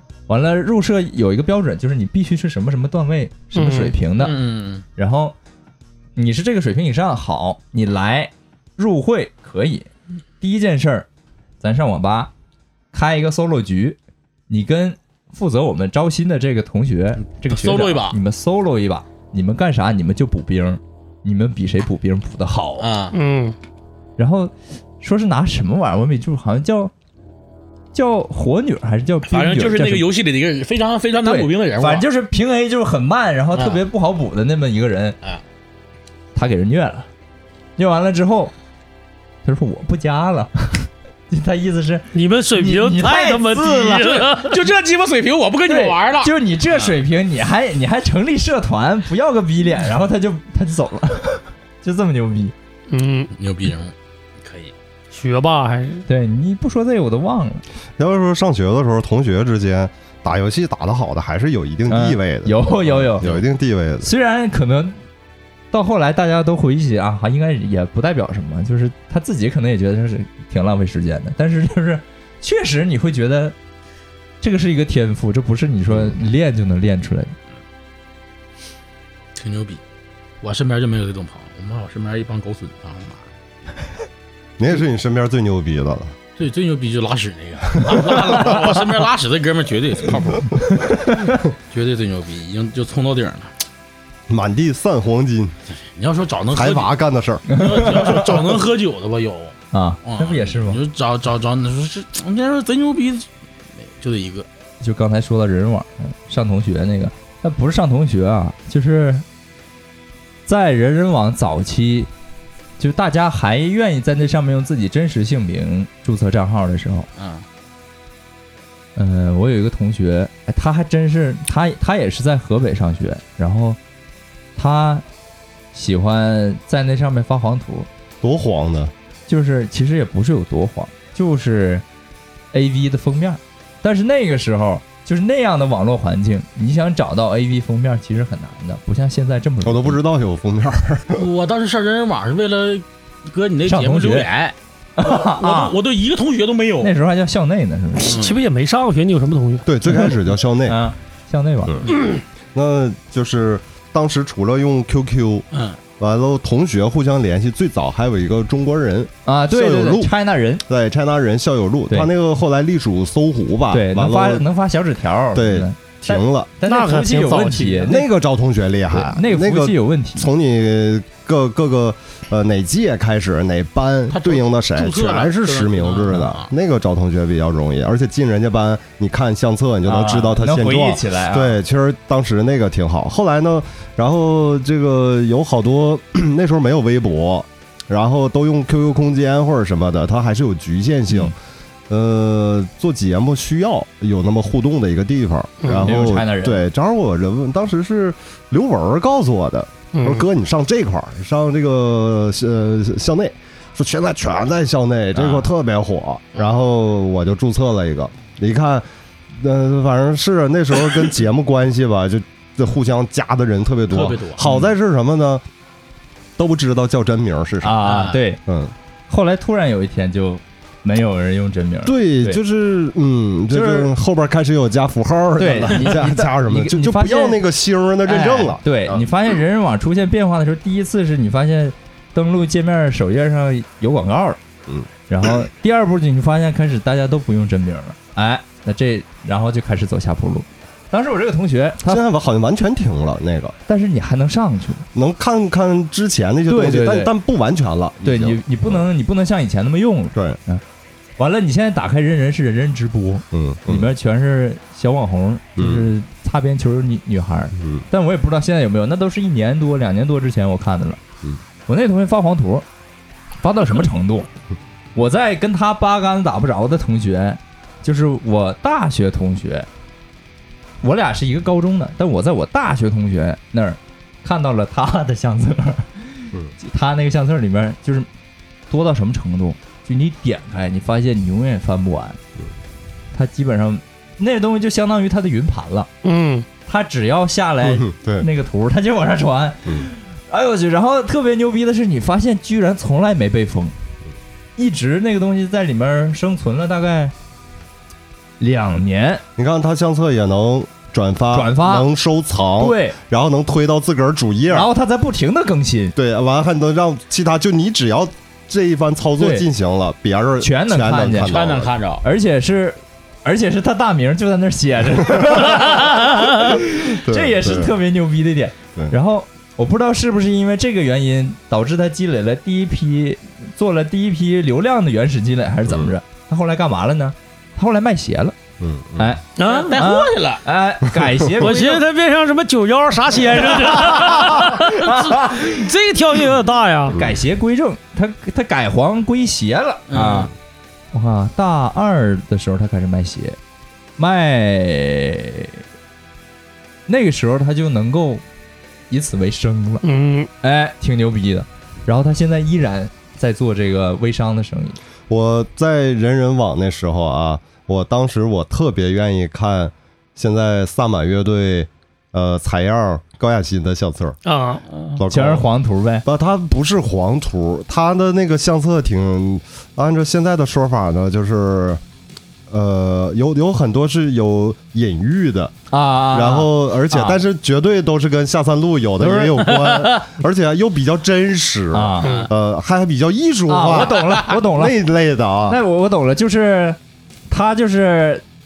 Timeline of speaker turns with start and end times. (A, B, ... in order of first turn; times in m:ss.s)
0:00.3-0:04.4 A
0:03.5-0:04.0 B
0:04.2-0:04.8 C
0:05.0-0:05.3 A
0:06.2-0:09.9 A
0:10.4-0:11.1 A
0:11.6-0:12.3 A
0:12.9-0:14.0 A
0:14.5-0:22.9 A
0:17.2-0:18.2 C
0:22.8-0:23.2 C
0:23.1-0:23.6 B
0:24.2-0:26.9 A
0:27.9-0:30.1 A
0:29.3-0:32.1 C
0:31.2-0:35.2 A
0:33.5-0:33.8 C
0:36.4-0:37.1 A
0:37.8-0:38.5 A
0:39.4-0:44.3 A
0:42.1-0:44.5 B
0:44.3-0:47.0 C
0:45.7-0:52.5 A
0:52.9-0:53.3 B
0:53.4-0:54.7 C
0:55.1-0:56.0 B
0:56.1-0:57.6 A
0:58.0-1:04.1 D
1:01.9-1:03.3 A
1:04.0-1:05.0 A
1:05.7-1:13.6 A
1:14.4-1:17.4 A
1:15.9-1:16.2 D
1:19.4-1:19.8 C
1:20.4-1:23.2 C
1:24.6-1:26.2 D
1:26.4-1:30.7 C
1:27.8-1:28.4 D
1:30.6-1:31.4 A
1:31.7-1:33.5 C
1:34.3-1:35.6 D
1:36.0-1:36.9 C
1:36.5-1:37.5 D
1:37.5-1:38.3 A
1:37.5-1:44.5 C
1:39.7-1:40.8 A
1:44.8-1:49.2 A
1:50.5-1:52.1 A
1:52.8-1:57.1 A
1:57.2-1:57.4 C
1:59.0-2:03.8 A
2:04.6-2:05.0 A
2:05.7-2:07.9 A
2:08.2-2:08.9 D
2:09.3-2:11.8 A
2:12.5-2:20.0 A
2:19.6-2:21.2 D
2:21.1-2:26.9 C
2:23.7-2:24.3 A
2:25.0-2:25.8 A
2:26.8-2:28.2 A
2:28.0-2:29.7 B
2:28.1-2:28.4 C
2:29.7-2:30.8 D
2:30.6-2:31.8 A
2:32.5-2:35.5 D
2:35.5-2:35.8 C
2:36.0-2:40.1 D
2:39.3-2:40.6 A
2:40.7-2:44.4 D
2:43.7-2:48.1 A
2:45.4-2:46.5 D
2:46.6-2:47.9 B
2:47.8-3:11.3 D
2:48.9-2:50.3 A
2:54.1-2:56.5 C
2:59.9-3:01.6 A
3:11.9-3:35.4 D
3:15.8-3:16.6 A
3:19.9-3:20.3 B
3:33.9-3:34.4 C
3:34.4-3:34.7 A
3:36.4-3:37.9 D
3:37.6-3:38.4 A
3:37.8-3:38.2 C
3:38.5-3:38.7 D
3:39.1-3:42.4 A
3:41.8-3:49.1 D
3:43.5-3:43.9 A
3:45.4-3:47.4 A
3:48.1-3:54.4 A
3:55.1-4:02.0 A
4:01.8-4:03.6 D
4:03.7-4:04.9 A
4:04.9-4:08.8 D
4:06.5-4:07.1 A
4:08.0-4:10.6 A
4:11.2-4:21.0 A
4:13.3-4:13.9 D
4:15.6-4:15.9 D
4:17.6-4:17.8 D
4:21.7-4:22.7 A
4:23.4-4:24.3 A
4:25.0-4:29.7 A
4:30.8-4:38.1 A
4:38.7-4:42.2 A
4:43.1-4:45.9 A
4:46.0-4:46.5 B
4:46.7-4:53.7 A
4:47.6-4:48.3 D
4:54.6-4:57.1 A
4:58.4-4:59.2 A
4:59.4-5:04.7 D
5:01.3-5:01.9 A
5:02.6-5:03.0 A
5:04.5-5:06.0 A
5:06.0-5:11.7 D
5:09.2-5:09.4 A
5:10.4-5:11.4 A
5:11.2-5:12.0 C
5:12.0-5:28.4 A
5:17.0-5:17.7 D
5:25.7-5:25.9 D
5:28.6-5:29.2 D
5:29.4-5:29.7 B
5:29.4-5:30.4 C
5:29.7-5:31.8 A
5:31.4-5:37.0 B
5:33.6-5:35.7 A
5:36.9-5:40.3 A
5:36.9-5:37.2 D
5:39.9-5:40.3 C
5:40.9-5:43.4 A
5:44.0-5:45.6 A
5:46.9-5:48.2 A
5:48.9-5:49.8 A
5:49.8-5:50.3 B
5:50.4-5:54.8 A
5:55.1-6:04.2 D
6:04.2-6:04.6 B
6:05.0-6:05.5 D
6:05.1-6:06.0 A
6:06.0-6:11.8 D
6:12.5-6:25.6 D
6:15.7-6:17.2 A
6:19.0-6:19.6 A
6:21.7-6:22.2 A
6:23.5-6:24.8 A
6:23.8-6:24.4 C
6:25.5-6:26.8 A
6:27.3-6:28.2 A